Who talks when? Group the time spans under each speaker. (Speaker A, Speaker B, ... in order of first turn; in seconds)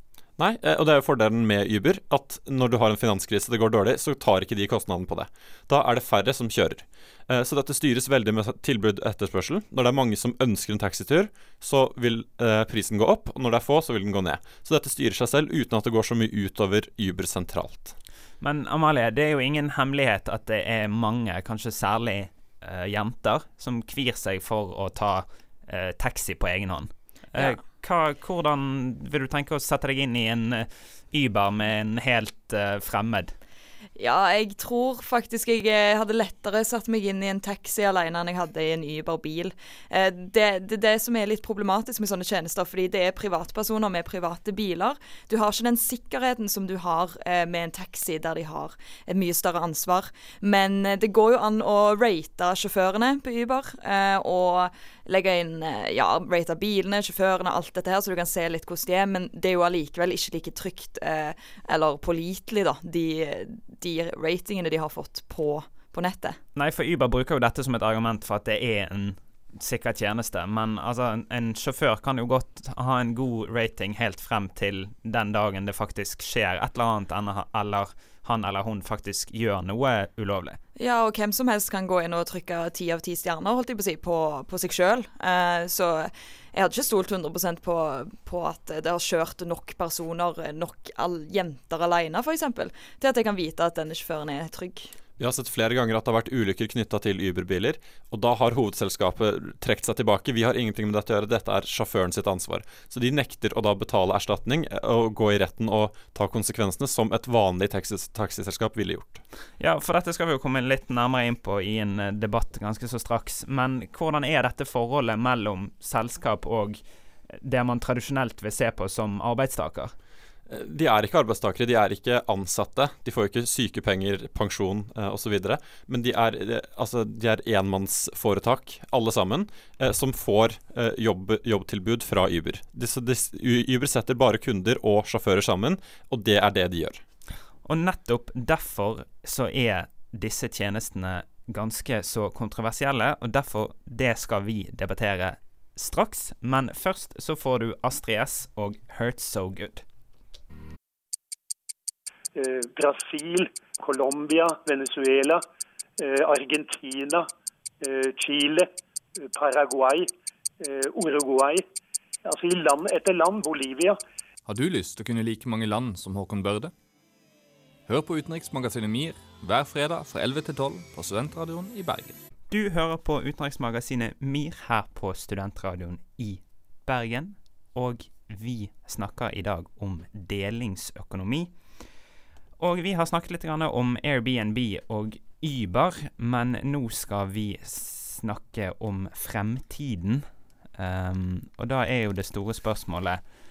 Speaker A: 0.4-17.9, 95.2-109.2, 120.5-137.0
Speaker B: 18.4-33.3, 66.5-80.6, 109.6-116.8, 117.4-119.9, 137.7-149.8, 172.5-181.5, 182.6-190.3, 190.8-193.2
Speaker C: 34.0-66.4, 80.8-94.9
Speaker D: 152.4-155.4, 156.0-157.3, 157.8-158.7, 159.2-161.7, 162.2-164.0
Speaker E: 164.5-166.7, 167.9-172.2